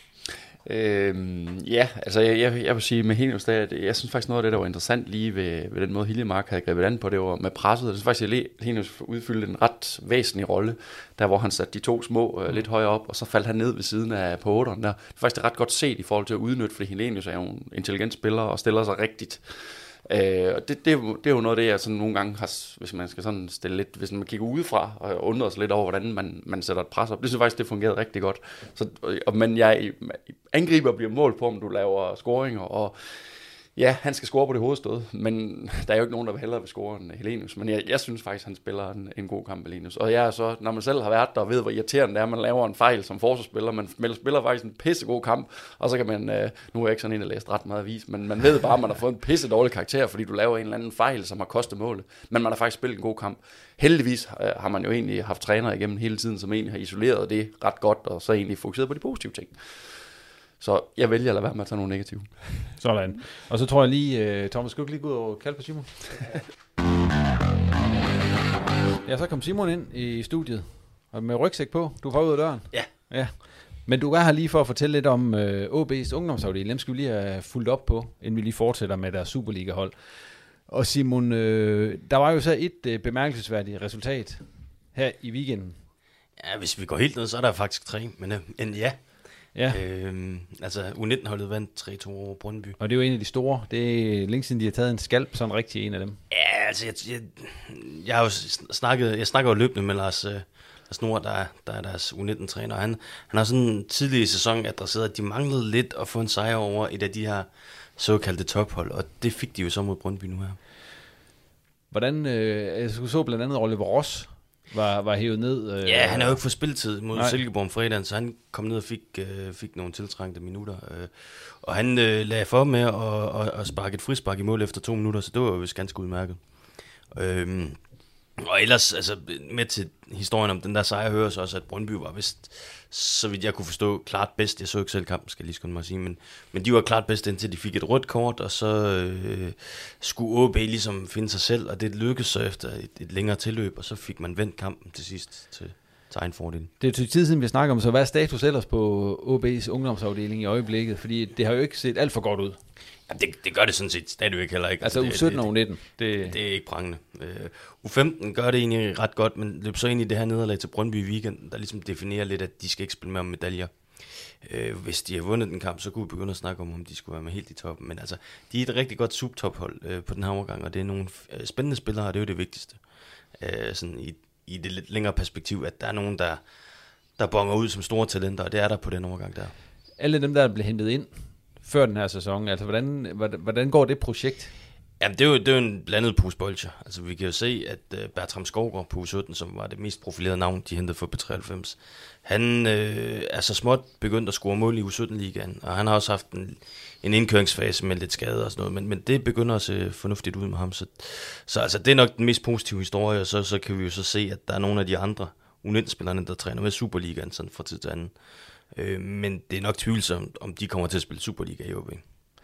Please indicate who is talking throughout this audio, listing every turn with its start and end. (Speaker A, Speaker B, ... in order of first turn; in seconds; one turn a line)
Speaker A: 0.6-62.5
Speaker B: 62.8-66.2
Speaker B: 69.0-85.8
Speaker C: 86.4-92.8
Speaker B: 89.5-89.8
Speaker B: 92.8-96.2
Speaker C: 96.3-110.6
Speaker B: 111.9-117.4
Speaker C: 115.8-146.7
Speaker B: 146.8-152.6
Speaker C: 153.1-179.5
Speaker B: 154.8-156.3
Speaker B: 179.9-184.5
Speaker C: 185.0-212.0